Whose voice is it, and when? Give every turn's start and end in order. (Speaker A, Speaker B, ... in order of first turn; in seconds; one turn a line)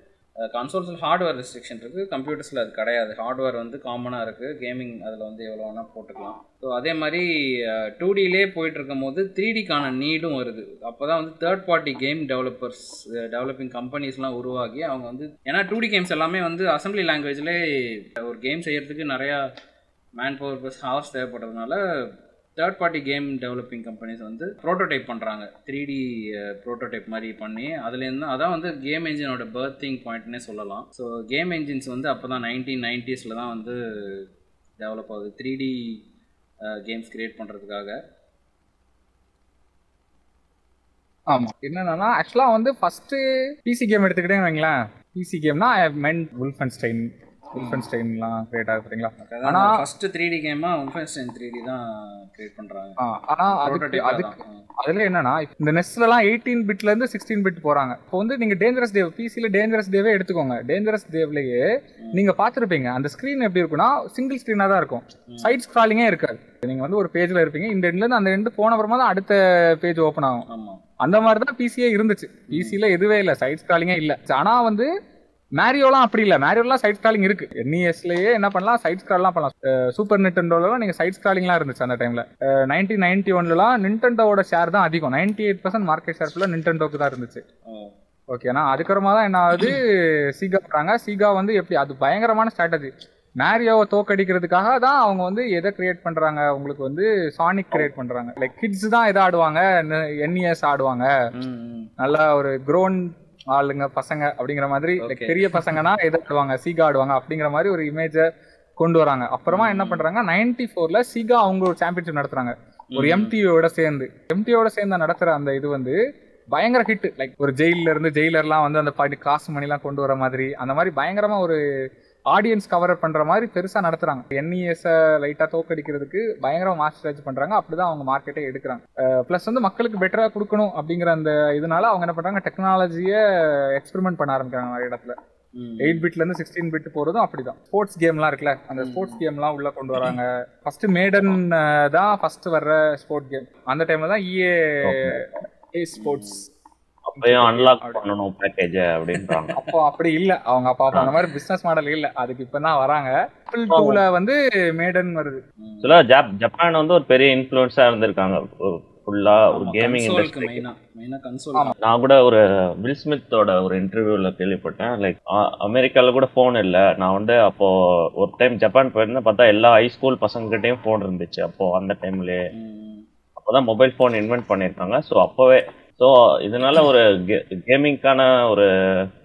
Speaker A: 0.5-19.4
Speaker A: 20.2-21.8
Speaker A: 22.6-34.2
Speaker A: 34.8-36.0
Speaker A: 36.7-38.0
Speaker B: 41.3-49.8
Speaker A: 47.5-47.8
Speaker A: 49.2-53.0
Speaker B: 53.0-70.5
Speaker A: 53.5-54.6
Speaker A: 65.3-65.6
Speaker A: 70.5-70.8
Speaker B: 71.0-74.9
Speaker A: 72.5-72.8
Speaker B: 75.5-87.4
Speaker A: 87.7-87.9
Speaker B: 88.3-101.1
Speaker A: 101.3-101.9
Speaker B: 102.0-116.0
Speaker A: 105.0-105.8
Speaker A: 109.5-110.0
Speaker A: 112.9-113.3
Speaker B: 116.5-121.6
Speaker B: 122.3-135.2
Speaker A: 135.6-136.1
Speaker B: 135.8-146.4
Speaker A: 138.8-139.2
Speaker C: 144.8-145.4
Speaker A: 145.9-146.4
Speaker C: 147.1-149.6
Speaker B: 147.2-148.0
Speaker B: 149.6-155.4
Speaker C: 153.7-154.0
Speaker A: 155.6-155.9
Speaker C: 155.8-160.6
Speaker A: 159.5-161.7
Speaker C: 161.8-172.4
Speaker A: 172.5-173.0
Speaker C: 173.4-178.7